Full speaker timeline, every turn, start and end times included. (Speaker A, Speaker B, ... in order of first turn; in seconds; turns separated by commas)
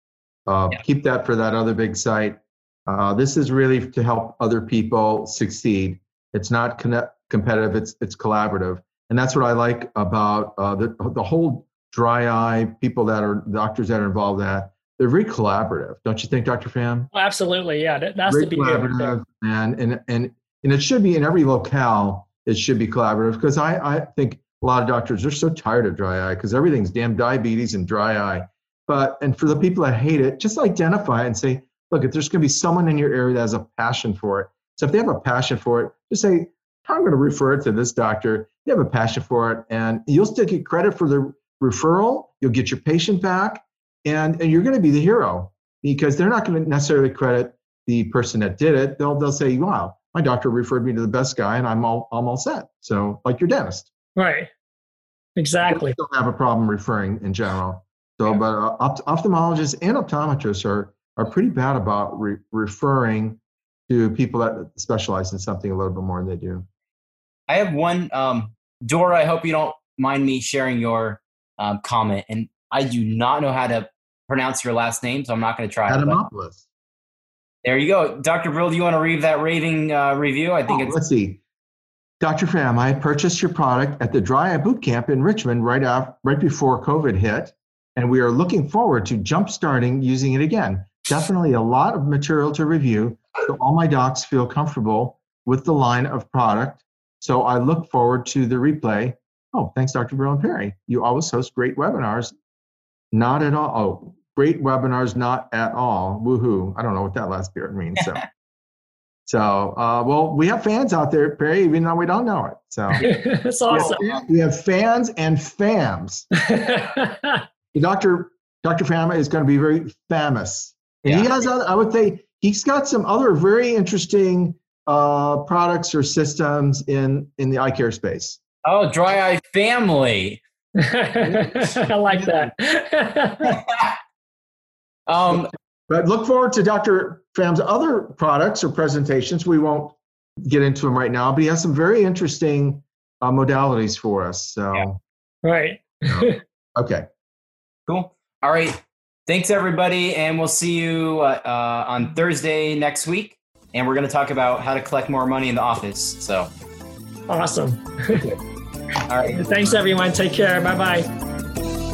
Speaker A: 0.5-17.1, Speaker B: 17.1-19.2, Speaker A: 18.2-53.9, Speaker B: 54.1-54.5, Speaker B: 55.4-56.0, Speaker A: 55.6-66.7, Speaker C: 67.5-76.2, Speaker A: 75.9-76.6, Speaker C: 77.6-81.0, Speaker A: 80.7-81.4, Speaker A: 82.2-102.3, Speaker A: 103.1-108.2, Speaker A: 109.2-113.1, Speaker B: 113.0-114.0, Speaker A: 113.7-116.3, Speaker C: 113.7-114.2, Speaker B: 116.3-117.4, Speaker A: 117.7-128.4, Speaker C: 121.0-121.4, Speaker C: 128.6-130.4, Speaker B: 130.8-133.6, Speaker C: 133.5-134.0, Speaker C: 135.1-135.5, Speaker A: 135.9-145.0, Speaker B: 145.4-146.4, Speaker A: 146.1-147.1, Speaker C: 147.9-156.5, Speaker B: 157.3-158.3, Speaker C: 159.1-159.5, Speaker B: 159.2-161.1